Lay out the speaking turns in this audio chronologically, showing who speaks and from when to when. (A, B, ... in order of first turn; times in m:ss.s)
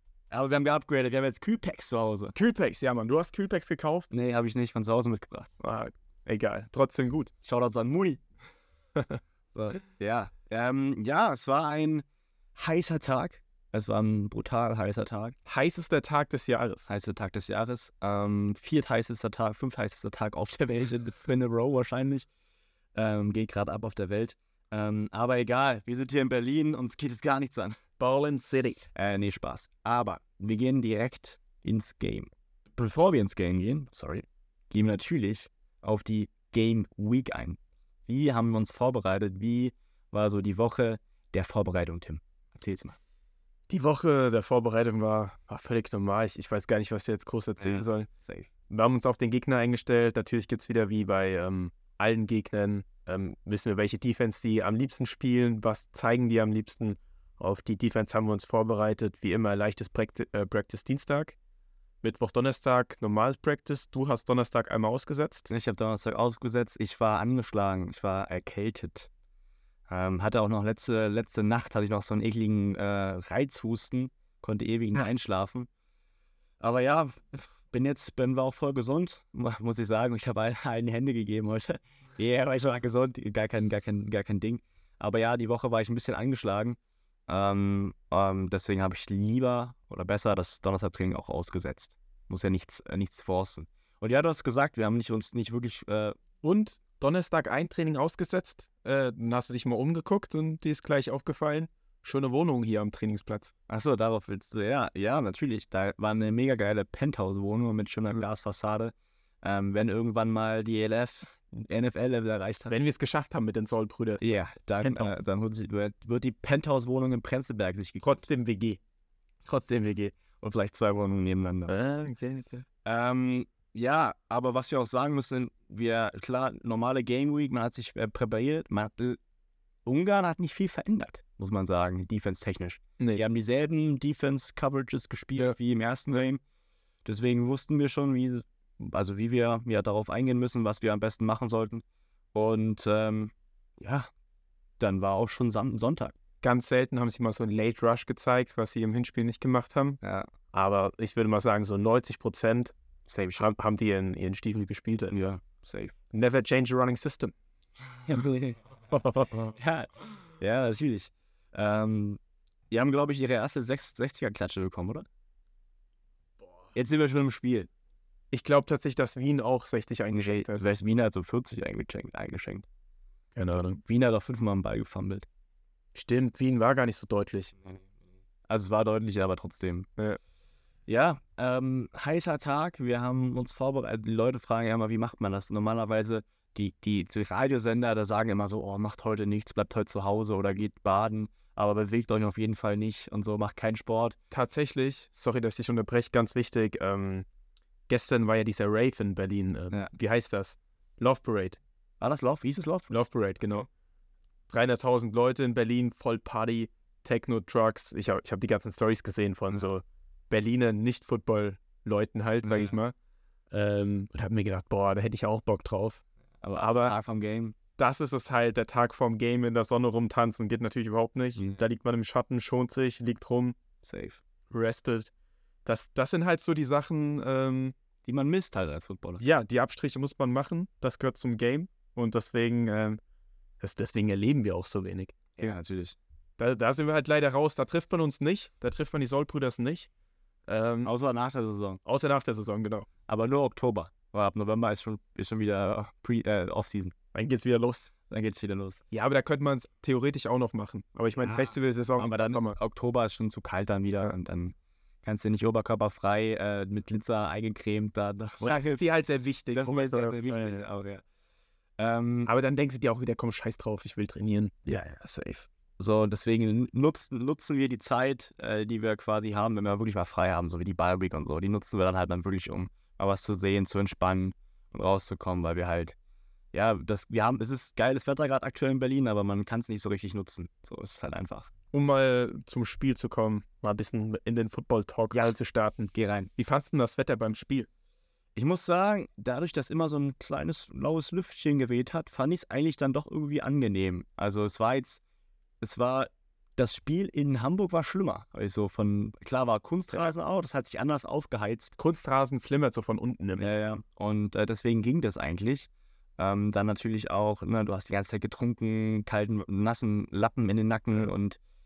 0:00.3-0:02.4 A
0:02.4-0:04.1 B
0:04.1-0:05.5 A
0:05.6-0:07.3 B
0:07.4-0:08.2 A
0:09.5-0:12.0 A
0:12.6-0:15.4 A
0:15.5-0:16.9 B
0:16.9-0:22.3 A
0:23.0-0:27.8 A
0:28.0-0:28.9 B
0:29.0-0:43.0 A
0:43.7-0:48.1 B
0:47.6-0:48.5 A
0:48.7-1:01.4 B
1:02.0-1:05.5 B
1:05.5-1:09.1 A
1:09.9-1:15.7 A
1:16.6-1:26.8 A
1:27.3-1:36.2 A
1:36.4-1:43.5 B
1:43.7-1:52.7 A
1:52.7-1:55.1 B
1:54.2-1:58.2 A
1:58.0-1:58.8 B
1:59.4-2:01.8 A
2:01.7-2:02.6 B
2:02.8-2:09.2 A
2:09.9-2:16.4 A
2:17.0-2:24.1 A
2:24.8-2:26.2 A
2:26.4-2:30.0 B
2:30.0-2:30.3 A
2:30.5-2:32.7 B
2:33.1-2:33.5 A
2:33.4-2:35.2 B
2:35.1-2:35.9 A
2:36.1-2:37.3 B
2:38.1-2:42.2 A
2:42.7-2:45.1 A
2:46.8-2:47.7 A
2:48.3-2:50.6 B
2:50.1-2:52.6 A
2:53.4-2:53.8 B
2:53.8-2:55.3 A
2:56.0-2:57.6 B
2:58.5-2:59.9 A
3:00.9-3:14.2 A
3:14.3-3:17.3 B
3:17.9-3:21.6 B
3:22.0-3:22.9 A
3:22.9-3:23.7 B
3:24.5-3:32.9 B
3:32.4-3:32.7 A
3:33.5-3:36.0 B
3:36.4-3:37.6 A
3:36.6-3:36.9 B
3:37.8-3:43.6 B
3:43.8-3:44.2 A
3:44.5-3:45.1 B
3:45.6-3:47.8 B
3:48.0-3:49.2 A
3:49.2-3:53.0 B
3:53.6-3:55.2 B
3:55.4-3:56.0 A
3:56.4-3:59.9 B
4:00.5-4:00.9 B
4:00.8-4:01.8 A
4:01.8-4:02.9 B
4:03.1-4:06.9 A
4:07.1-4:07.9 B
4:08.1-4:08.8 A
4:08.9-4:12.6 B
4:11.2-4:18.8 A
4:18.4-4:20.6 B
4:19.5-4:21.0 A
4:21.8-4:22.3 A
4:22.3-4:24.6 B
4:24.7-4:36.0 A
4:36.5-4:41.5 A
4:41.7-4:47.7 B
4:45.9-4:46.3 A
4:48.4-4:55.0 A
4:55.6-5:01.8 A
5:01.8-5:03.4 B
5:03.4-5:11.4 A